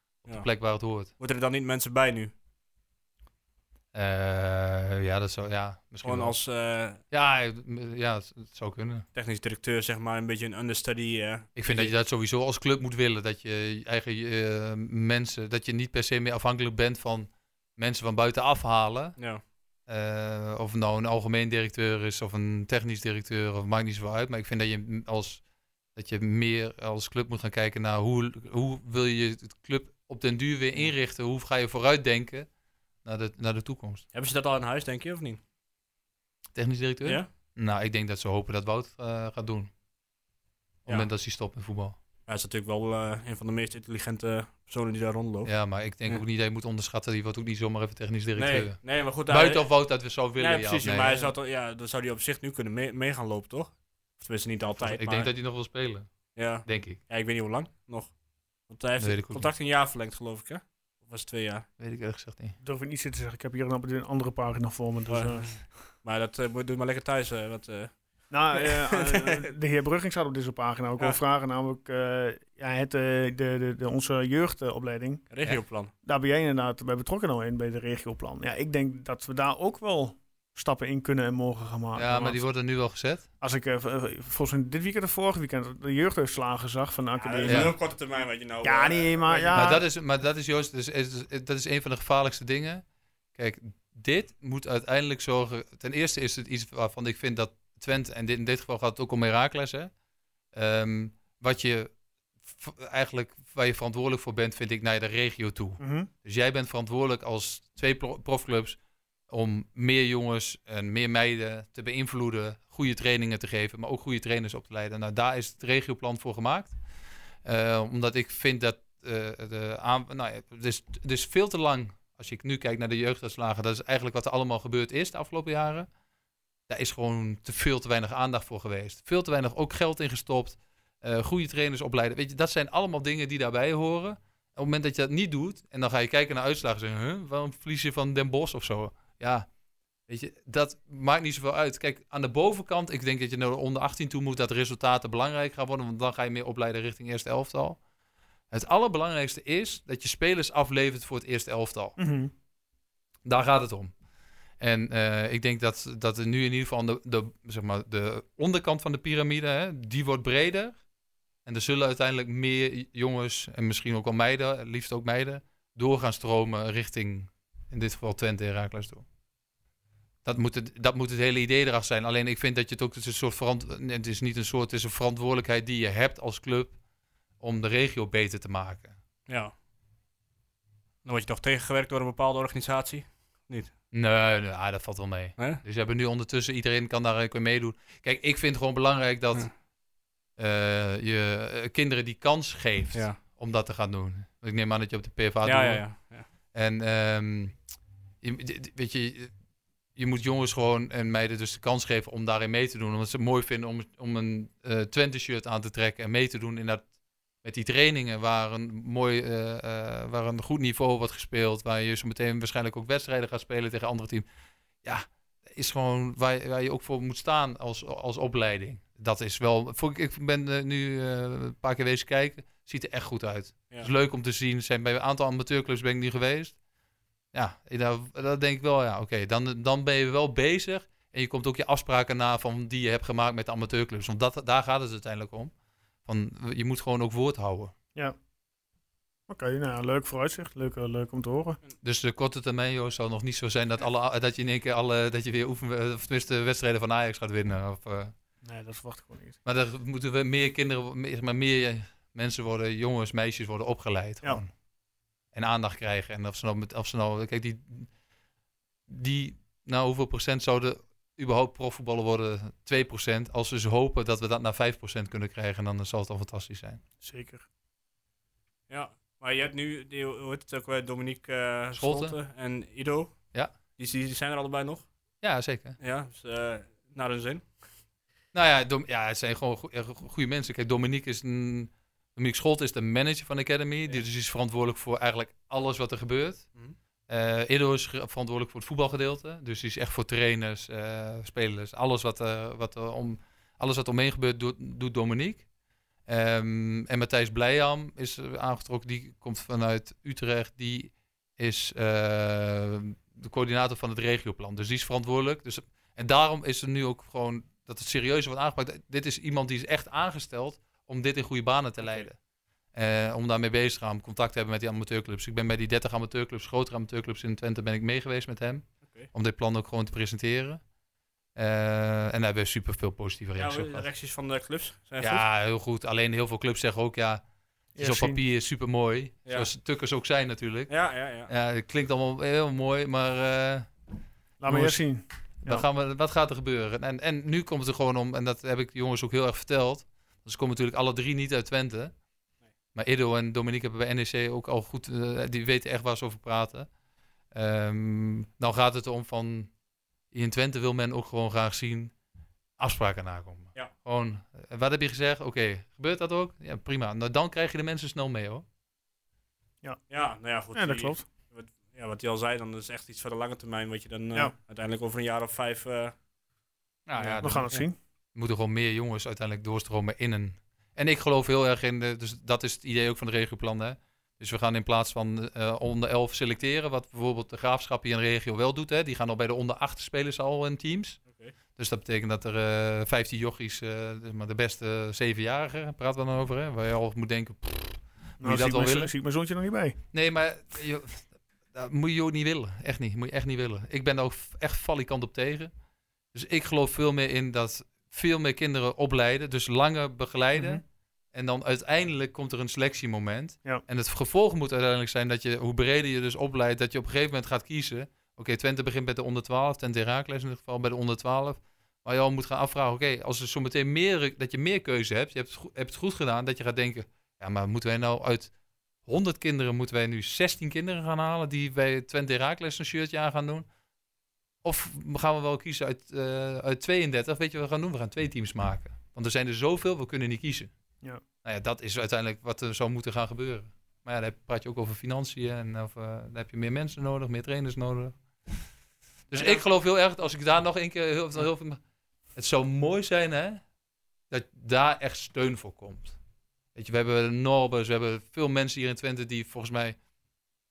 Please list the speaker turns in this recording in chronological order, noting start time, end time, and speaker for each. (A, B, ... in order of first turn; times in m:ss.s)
0:00.2-0:01.1 A
0:01.2-0:02.3 B
0:03.9-0:06.4 A
0:06.0-0:07.0 B
0:07.1-0:09.0 A
0:09.1-0:11.9 B
0:11.6-0:19.2 A
0:19.2-0:19.4 B
0:19.9-0:25.4 A
0:25.9-0:32.5 A
0:33.0-0:34.0 A
0:34.1-0:35.4 B
0:36.6-0:39.7 A
0:40.9-0:42.0 A
0:42.3-0:45.5 B
0:45.4-0:51.3 A
0:48.4-0:49.7 B
0:50.4-0:55.3 B
0:54.8-0:56.1 A
0:56.3-0:58.1 B
0:56.6-0:57.0 A
0:58.7-1:01.6 B
0:59.0-0:59.5 A
1:01.8-1:02.6 A
1:02.6-1:05.6 C
1:05.1-1:09.5 B
1:08.3-1:15.2 C
1:15.3-1:15.9 B
1:16.0-1:22.4 C
1:21.9-1:23.3 A
1:23.4-1:27.8 C
1:27.2-1:29.7 B
1:27.4-1:27.7 A
1:28.6-1:29.8 C
1:29.5-1:32.8 A
1:33.3-1:39.9 A
1:40.5-1:41.9 A
1:42.5-1:48.8 A
1:45.8-1:46.1 C
1:49.3-1:56.7 A
1:57.4-2:05.9 A
2:06.7-2:19.5 A
2:20.1-2:27.8 A
2:28.5-2:32.0 A
2:32.0-2:32.3 C
2:33.2-2:33.9 A
2:34.6-2:40.8 A
2:41.4-2:49.0 A
2:50.2-2:56.8 A
2:57.4-2:58.9 A
2:59.3-2:59.5 B
3:01.0-3:03.7 B
3:03.9-3:09.5 A
3:10.4-3:15.9 A
3:15.4-3:16.3 B
3:16.5-3:17.6 A
3:18.2-3:19.3 A
3:20.0-3:26.9 A
3:27.4-3:34.3 A
3:34.8-3:46.6 A
3:47.3-3:55.5 A
3:56.0-3:57.7 A
3:59.3-4:01.6 C
4:01.8-4:08.1 A
4:08.4-4:09.4 C
4:09.4-4:14.5 A
4:15.3-4:17.9 A
4:18.9-4:26.8 A
4:27.0-4:27.4 C
4:28.7-4:33.3 B
4:31.8-4:32.2 A
4:33.8-4:34.9 B
4:35.2-4:35.8 A
4:35.8-4:37.6 B
4:38.3-4:46.4 A
4:47.1-4:55.4 A
4:56.1-5:12.2 A
5:11.8-5:12.1 B
5:12.7-5:20.6 A
5:18.8-5:19.1 B
5:21.4-5:23.9 A
5:23.4-5:25.2 B
5:25.0-5:27.2 A
5:27.7-5:28.2 C
5:27.8-5:30.7 A
5:30.7-5:31.3 B
5:31.3-5:33.7 A
5:34.4-5:35.6 C
5:34.4-5:34.8 A
5:35.4-5:41.9 A
5:42.7-5:46.7 A
5:47.3-5:49.5 A
5:50.1-5:51.9 A
5:52.6-5:58.4 A
5:59.9-6:05.9 B
6:00.5-6:01.0 C
6:06.9-6:07.6 A
6:07.0-6:07.3 B
6:07.2-6:07.8 C
6:08.1-6:21.0 A
6:21.1-6:21.3 B
6:21.6-6:28.9 A
6:28.2-6:29.8 C
6:29.9-6:35.5 A
6:36.1-6:58.3 A
6:40.3-6:40.6 C
6:58.8-7:03.4 A
7:04.4-7:10.5 A
7:11.2-7:18.0 A
7:19.1-7:21.6 A
7:19.1-7:19.4 B
7:22.1-7:23.4 A
7:24.1-7:26.0 A
7:26.6-7:29.8 A